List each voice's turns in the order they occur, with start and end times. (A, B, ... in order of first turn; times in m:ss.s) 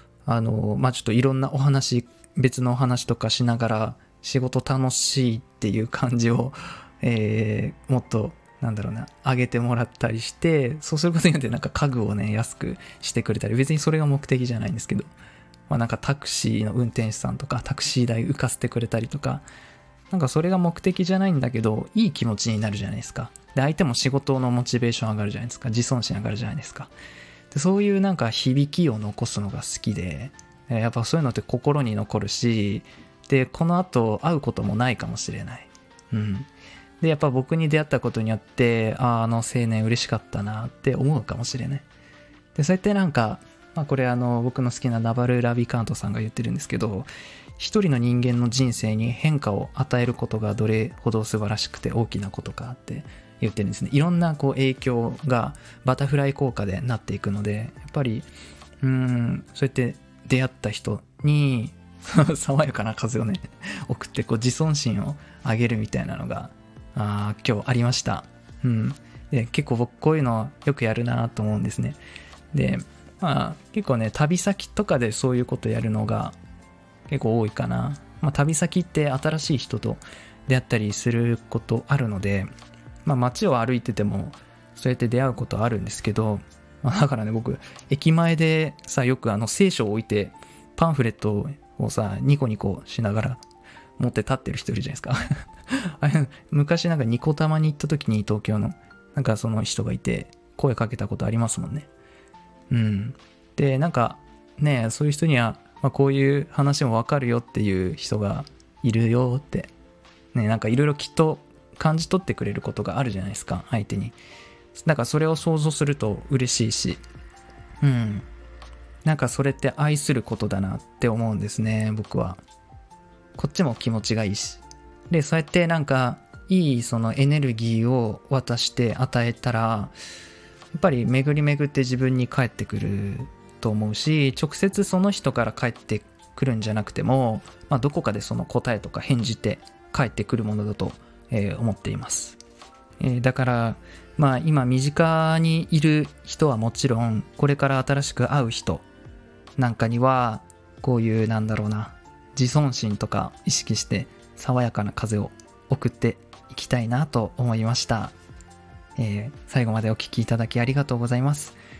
0:00.3-0:15.1 A
0:15.7-0:19.4 A
0:20.1-0:26.9 A
0:27.5-0:36.5 A
0:37.0-0:41.9 A
0:42.6-0:58.3 A
0:58.8-1:12.0 A
1:12.5-1:16.4 A
1:17.1-1:22.5 A
1:23.0-1:33.4 A
1:34.0-1:41.9 A
1:42.7-1:49.7 A
1:50.3-1:54.2 A
1:54.8-1:57.0 A
1:57.8-1:58.3 A
1:59.0-2:02.4 A
2:03.4-2:09.9 A
2:10.7-2:22.4 A
2:23.0-2:28.9 A
2:29.6-2:38.2 A
2:39.0-2:41.6 A